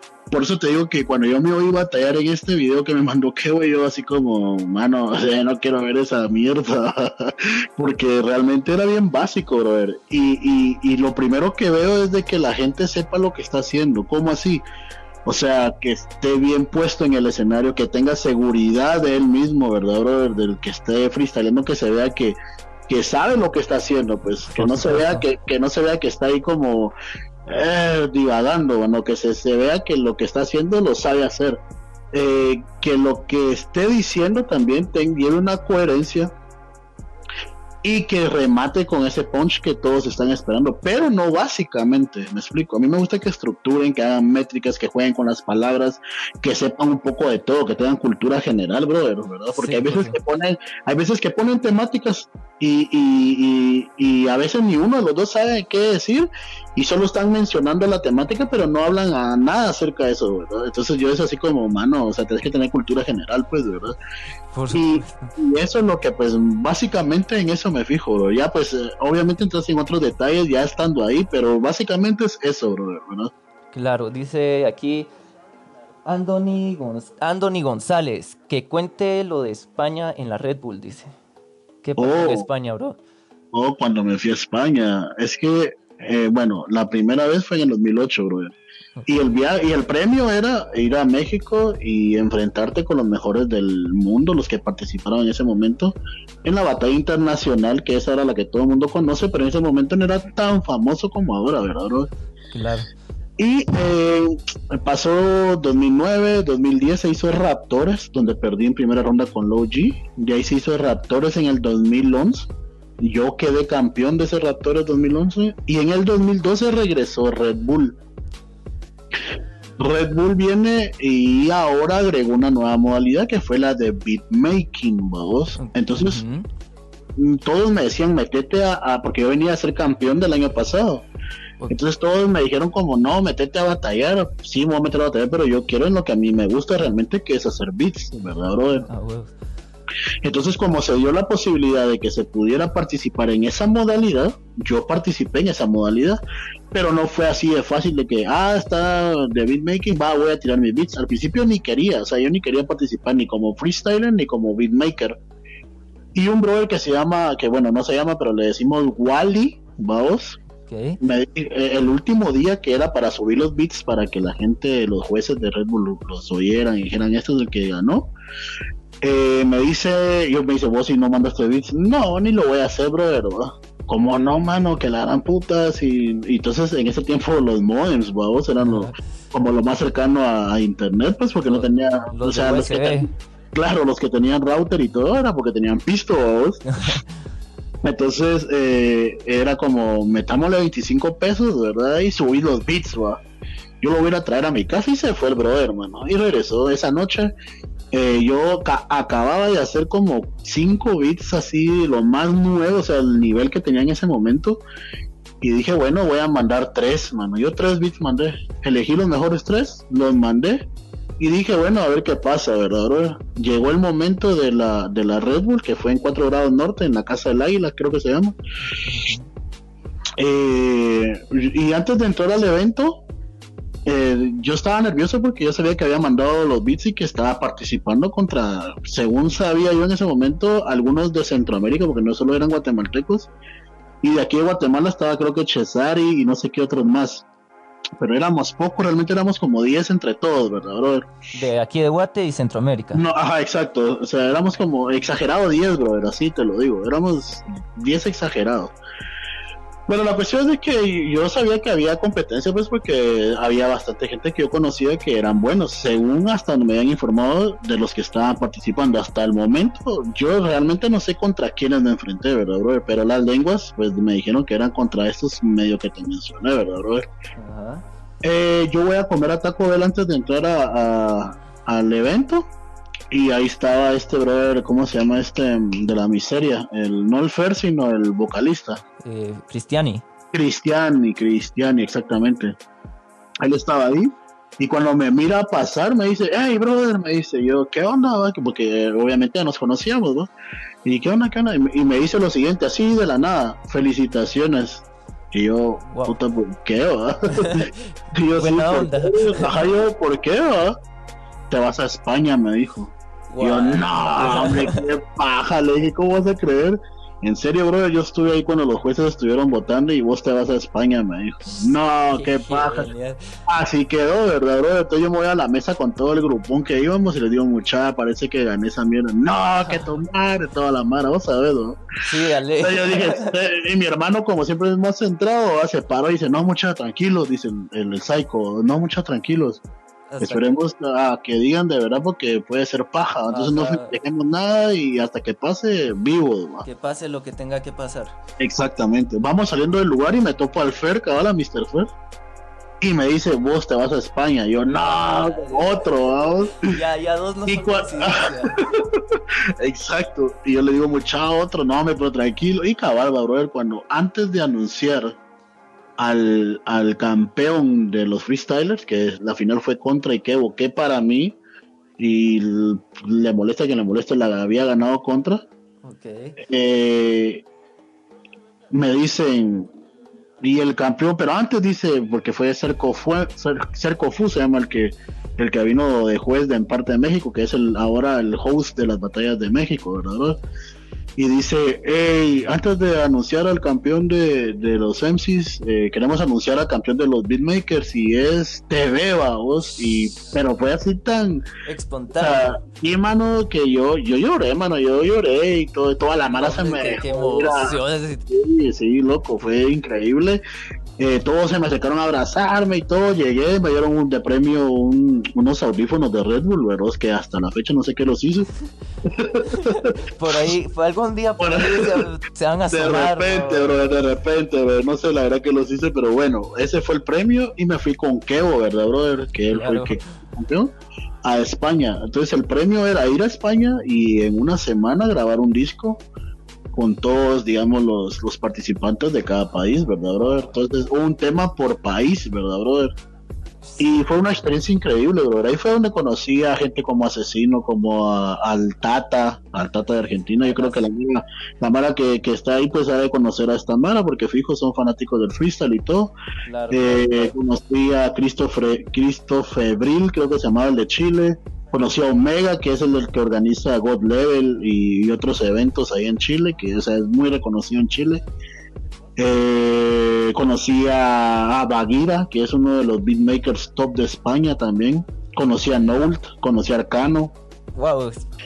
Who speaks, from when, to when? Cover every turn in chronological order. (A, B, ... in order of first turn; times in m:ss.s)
0:00.3-0:14.6 A
0:15.2-0:22.4 A
0:22.9-0:26.9 A
0:24.5-0:25.2 B
0:27.5-0:31.6 A
0:32.1-0:36.3 A
0:37.8-1:04.0 A
0:49.5-0:50.2 B
1:04.5-1:05.3 B
1:04.7-1:13.3 A
1:13.7-1:15.1 B
1:16.0-1:21.1 B
1:21.8-1:23.0 B
1:22.0-1:22.4 A
1:23.5-1:28.5 A
1:29.1-1:42.1 A
1:42.5-1:42.9 B
1:43.4-1:58.0 A
1:59.8-2:06.2 A
2:05.6-2:06.4 B
2:07.2-2:11.0 A
2:11.7-2:18.9 A
2:18.9-2:19.3 B
2:20.2-2:26.2 A
2:26.7-2:35.2 A
2:36.1-2:40.4 A
2:40.7-2:41.0 B
2:41.0-2:48.1 A
2:49.0-3:06.6 A
2:58.6-2:59.0 B
3:01.5-3:03.1 B
3:06.7-3:07.0 B
3:07.8-3:13.2 A
3:13.8-3:17.3 A
3:17.9-3:24.6 A
3:25.4-3:30.7 A
3:31.2-3:38.4 A
3:38.7-3:39.2 B
3:40.2-3:43.0 A
3:43.8-3:53.3 A
3:54.0-3:57.2 A
3:58.0-4:01.1 A
4:01.3-4:03.0 B
4:02.9-4:08.7 A
4:09.9-4:27.0 A
4:27.4-4:27.8 B
4:28.2-4:32.4 A
4:33.1-4:38.8 A
4:39.0-4:40.0 B
4:40.3-4:42.6 A
4:43.4-4:50.3 A
4:50.8-5:00.8 A
4:55.9-4:56.1 B
4:57.3-4:57.8 B
4:58.3-4:59.6 B
5:01.5-5:12.9 A
5:03.3-5:04.9 B
5:11.4-5:13.4 B
5:13.5-5:21.8 A
5:22.0-5:23.4 B
5:22.6-5:29.6 A
5:30.1-5:30.6 B
5:30.2-5:36.6 A
5:33.3-5:34.0 B
5:36.6-5:38.1 B
5:38.4-5:41.9 A
5:42.8-5:46.7 A
5:44.8-5:48.6 B
5:47.5-5:55.2 A
5:56.0-6:01.4 A
6:02.0-6:05.4 A
6:05.8-6:06.4 B
6:06.4-6:07.4 A
6:08.7-6:09.7 A
6:10.4-6:20.4 A
6:21.2-6:31.5 A
6:31.6-6:32.6 B
6:32.2-6:37.8 A
6:36.3-6:38.3 B
6:38.3-6:40.4 A
6:41.0-6:48.5 A
6:49.0-6:49.9 A
6:49.4-6:53.8 B
6:51.4-6:52.0 A
6:52.7-7:00.7 A
6:59.5-7:00.0 B
7:01.2-7:06.0 A
7:06.7-7:12.9 A
7:13.8-7:26.1 A
7:20.4-7:20.8 B
7:26.4-7:27.3 B
7:26.7-7:38.2 A
7:39.2-7:47.3 A
7:47.7-7:48.2 B